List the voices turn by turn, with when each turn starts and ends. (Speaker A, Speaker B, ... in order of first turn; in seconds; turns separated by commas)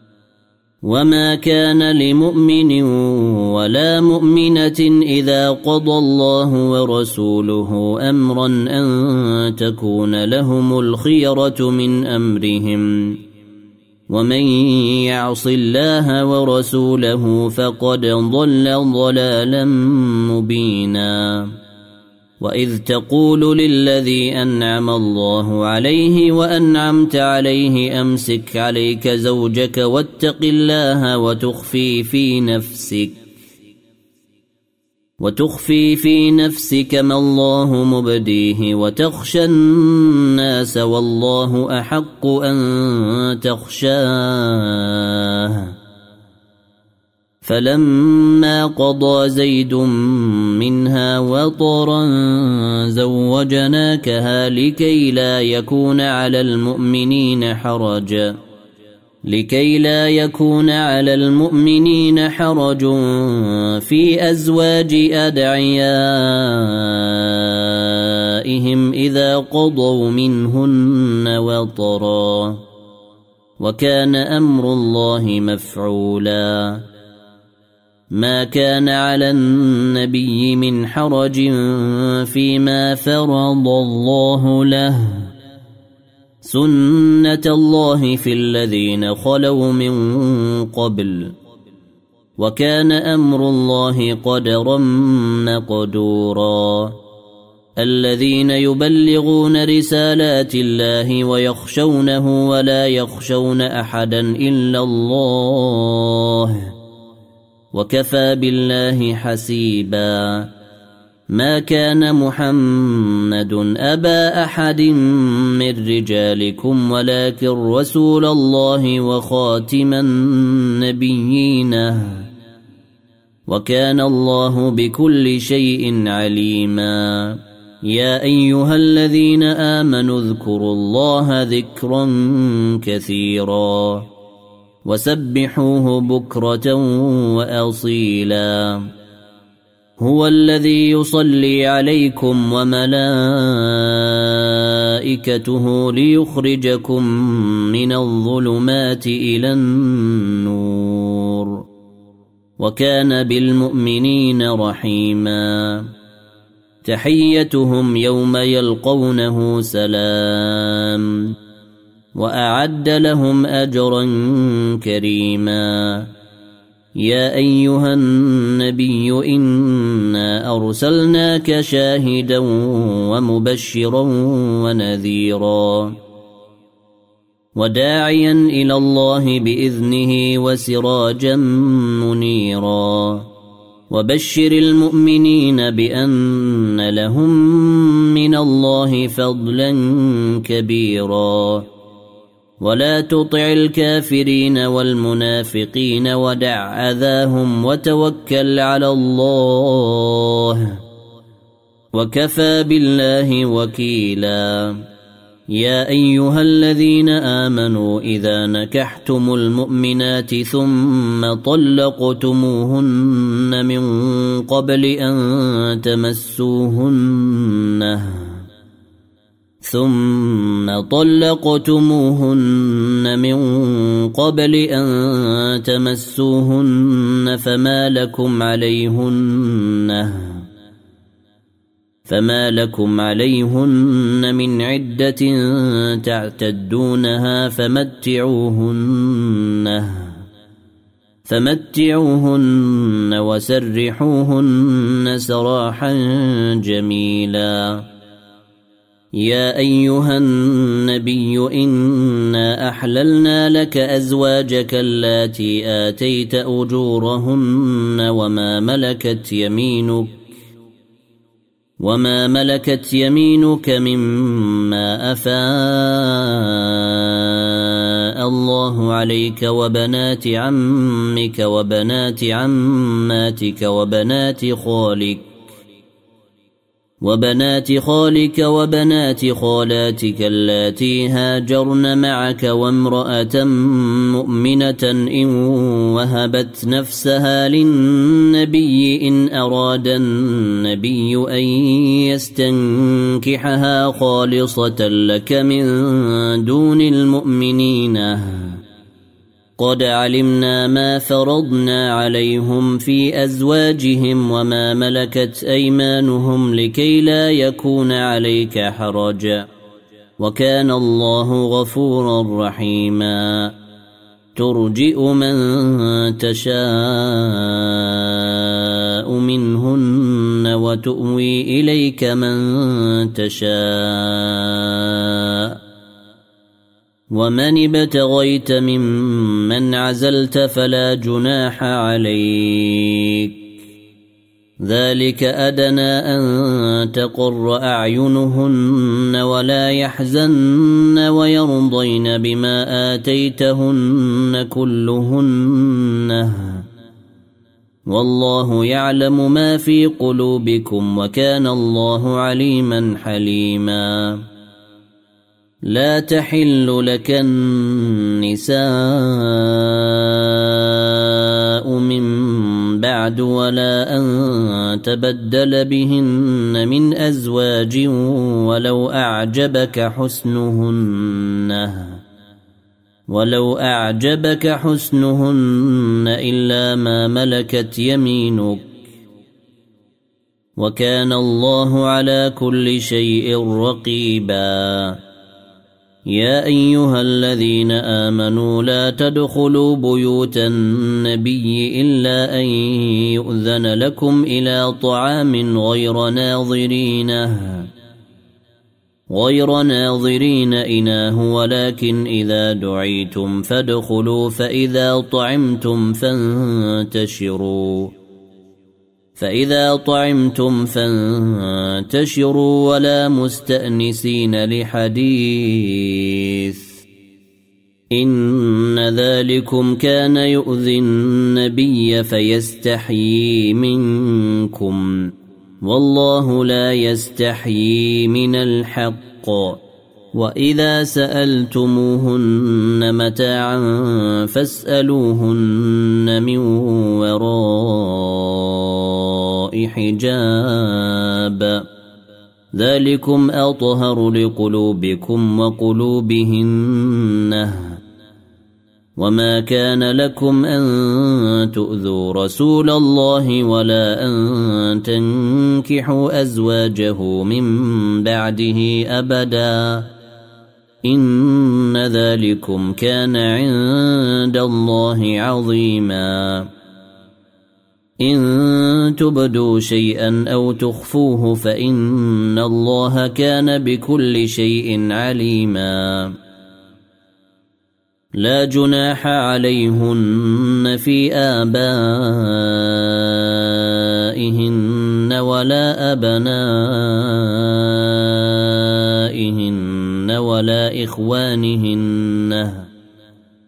Speaker A: 0.8-13.2, Speaker A: 14.1-21.6, Speaker A: 22.4-33.2, Speaker A: 35.2-45.7, Speaker A: 47.4-58.4, Speaker A: 59.2-72.6, Speaker A: 73.6-76.9, Speaker A: 78.1-85.3, Speaker A: 86.4-91.4, Speaker A: 92.4-97.0, Speaker A: 97.8-106.7, Speaker A: 107.7-110.5, Speaker A: 111.3-122.3, Speaker A: 123.5-134.1, Speaker A: 134.8-138.9, Speaker A: 140.0-151.7, Speaker A: 152.6-155.9, Speaker A: 156.8-161.3, Speaker A: 162.1-166.1, Speaker A: 166.9-176.0, Speaker A: 177.6-183.3, Speaker A: 183.9-191.7, Speaker A: 192.6-200.8, Speaker A: 201.9-204.8, Speaker A: 205.5-218.4, Speaker A: 219.6-230.5, Speaker A: 232.1-240.3, Speaker A: 241.2-247.9, Speaker A: 249.1-260.3, Speaker A: 261.8-275.3, Speaker A: 277.0-298.6, Speaker A: 299.6-309.5, Speaker A: 310.2-313.6, Speaker A: 314.4-325.6, Speaker A: 327.1-333.4, Speaker A: 334.6-346.7, Speaker A: 347.9-354.3, Speaker A: 355.6-372.0, Speaker A: 373.1-378.8, Speaker A: 380.6-385.0, Speaker A: 386.1-397.7, Speaker A: 399.1-407.9, Speaker A: 409.2-416.8, Speaker A: 417.9-429.6, Speaker A: 430.1-441.7, Speaker A: 442.5-447.8, Speaker A: 449.0-459.9, Speaker A: 460.8-466.5, Speaker A: 468.0-476.2, Speaker A: 478.1-492.7